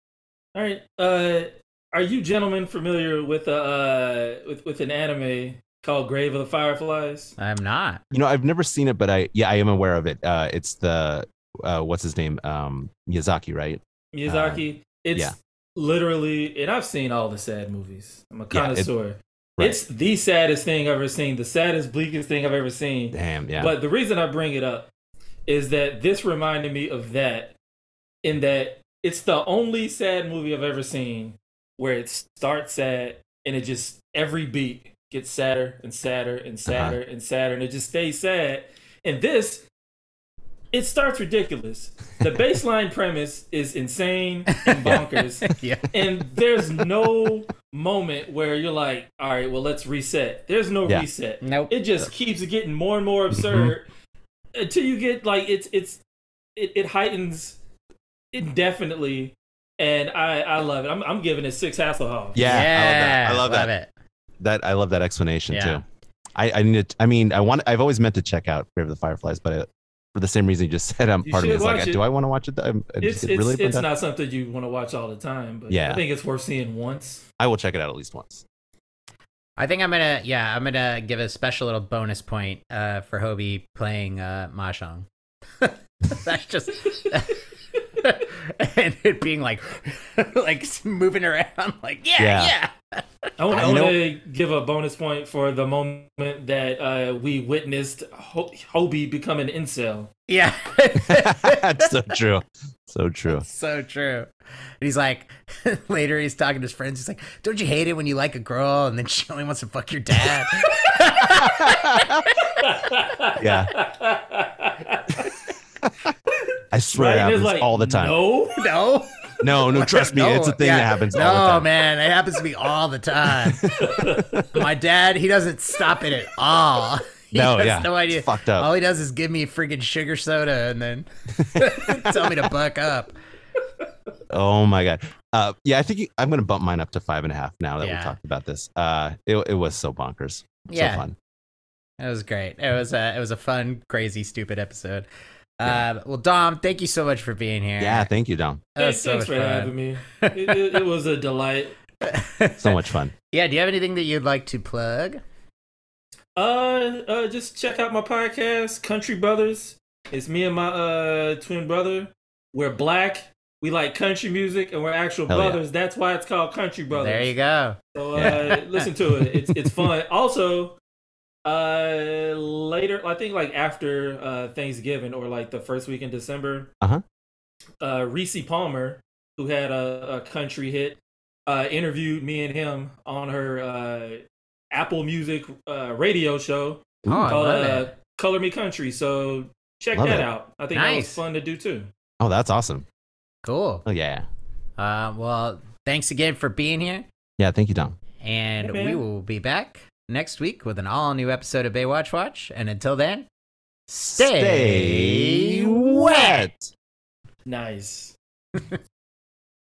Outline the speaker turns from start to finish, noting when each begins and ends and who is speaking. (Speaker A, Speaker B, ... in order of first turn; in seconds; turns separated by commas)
Speaker A: 0.6-7.3, Speaker B: 7.4-8.0, Speaker C: 8.1-14.6, Speaker A: 14.1-24.9, Speaker C: 18.5-18.9, Speaker C: 23.1-23.7, Speaker A: 25.5-27.6, Speaker A: 28.2-39.6, Speaker C: 36.7-37.0, Speaker A: 40.7-53.9, Speaker B: 44.5-45.9, Speaker B: 51.4-51.7, Speaker C: 53.3-53.7, Speaker A: 54.5-56.0, Speaker A: 56.5-57.6, Speaker A: 58.3-62.4, Speaker C: 62.3-63.7, Speaker B: 62.4-63.9, Speaker C: 64.4-65.8, Speaker B: 65.5-65.8, Speaker C: 66.3-73.9, Speaker A: 71.2-72.0, Speaker A: 73.0-77.2, Speaker C: 75.7-76.0, Speaker C: 77.4-78.4, Speaker B: 79.6-85.0, Speaker B: 85.6-87.4, Speaker B: 88.0-93.1, Speaker C: 92.2-92.5, Speaker A: 93.4-100.1, Speaker C: 93.5-94.0, Speaker B: 100.3-102.0, Speaker C: 101.0-103.5, Speaker B: 103.3-104.3, Speaker B: 104.8-112.5, Speaker C: 111.3-112.3, Speaker A: 112.6-115.3, Speaker C: 113.4-113.7, Speaker C: 116.7-118.2, Speaker A: 116.9-118.7, Speaker B: 118.5-123.7, Speaker C: 119.4-121.7, Speaker C: 123.3-124.5, Speaker A: 123.8-124.4, Speaker B: 124.5-133.1, Speaker C: 127.3-128.7, Speaker C: 131.4-132.4, Speaker C: 134.3-141.1, Speaker B: 137.8-138.1, Speaker B: 140.7-141.1, Speaker B: 142.0-145.1, Speaker B: 145.6-148.1, Speaker C: 147.8-148.7, Speaker B: 148.8-150.8, Speaker A: 148.8-151.7, Speaker B: 152.0-152.8, Speaker C: 152.6-153.1, Speaker B: 153.3-155.2, Speaker A: 156.4-167.3, Speaker C: 165.3-165.6, Speaker B: 166.9-168.9, Speaker A: 167.9-170.8, Speaker C: 168.1-168.6, Speaker A: 171.4-176.7, Speaker A: 177.8-191.9, Speaker B: 187.1-187.9, Speaker C: 189.9-190.3, Speaker B: 190.7-191.2, Speaker C: 192.2-192.9, Speaker B: 193.4-193.8, Speaker C: 193.9-194.3, Speaker B: 194.8-197.1, Speaker C: 197.4-198.0, Speaker B: 198.2-203.3, Speaker A: 198.6-199.0, Speaker B: 203.9-206.5, Speaker C: 204.1-206.7, Speaker A: 207.4-208.2